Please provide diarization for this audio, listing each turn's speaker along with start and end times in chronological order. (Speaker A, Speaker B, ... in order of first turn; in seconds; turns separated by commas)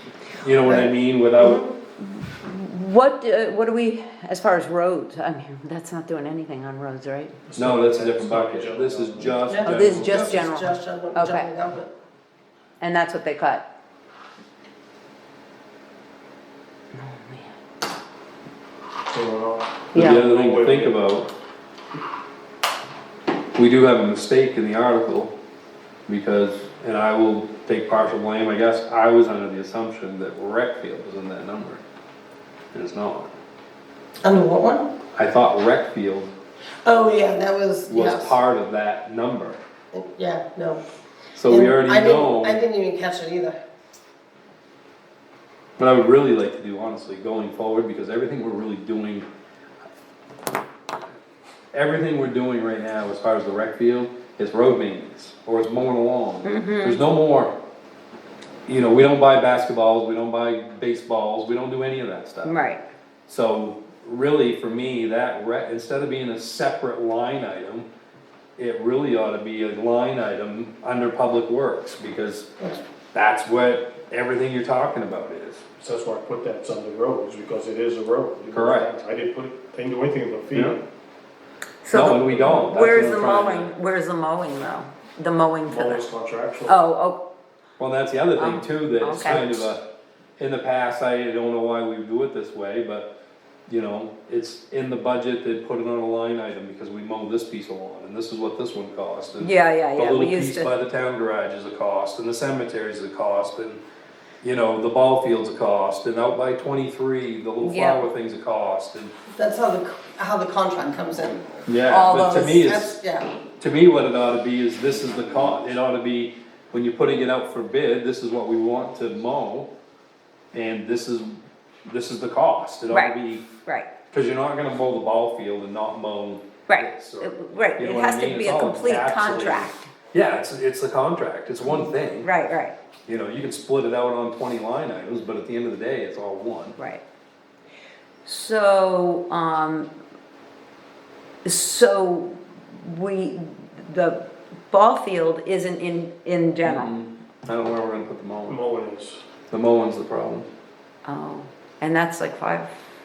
Speaker A: 0.4-1.6, Speaker B: 0.6-1.6, Speaker C: 2.0-7.3, Speaker D: 7.5-10.2, Speaker A: 7.5-10.2, Speaker B: 9.5-11.9, Speaker C: 9.6-11.5, Speaker C: 12.8-13.6, Speaker C: 17.0-17.5, Speaker D: 19.1-20.9, Speaker C: 19.9-20.2, Speaker A: 19.9-21.3, Speaker A: 23.5-25.3, Speaker A: 26.1-31.8, Speaker A: 32.7-33.3, Speaker B: 34.2-34.9, Speaker A: 35.1-36.3, Speaker B: 36.8-38.4, Speaker A: 37.9-39.6, Speaker B: 39.9-40.8, Speaker A: 41.4-42.6, Speaker B: 41.4-43.6, Speaker A: 45.8-49.3, Speaker A: 51.7-57.5, Speaker C: 56.4-57.0, Speaker A: 58.7-62.6, Speaker C: 62.4-62.8, Speaker A: 63.3-67.9, Speaker A: 68.6-72.5, Speaker A: 73.1-75.6, Speaker D: 75.8-80.8, Speaker A: 78.5-78.9, Speaker A: 80.5-80.8, Speaker C: 81.8-86.0, Speaker A: 81.9-83.7, Speaker D: 85.7-86.8, Speaker C: 86.7-87.2, Speaker A: 87.8-89.8, Speaker C: 88.3-89.7, Speaker A: 90.4-93.1, Speaker A: 93.7-103.8, Speaker C: 99.4-100.7, Speaker A: 104.4-109.1, Speaker C: 107.6-108.1, Speaker B: 109.3-111.6, Speaker A: 111.7-113.0, Speaker C: 111.9-112.6, Speaker B: 112.4-113.3, Speaker A: 113.6-119.7, Speaker A: 120.5-121.3, Speaker A: 121.8-123.5, Speaker C: 122.9-123.1, Speaker A: 124.1-132.3, Speaker C: 126.7-129.8, Speaker C: 131.7-132.7, Speaker A: 133.1-136.8, Speaker C: 136.8-137.0, Speaker C: 138.2-139.9, Speaker C: 141.4-146.9, Speaker A: 146.6-148.6, Speaker D: 148.5-149.2, Speaker A: 149.5-150.5, Speaker C: 151.0-152.8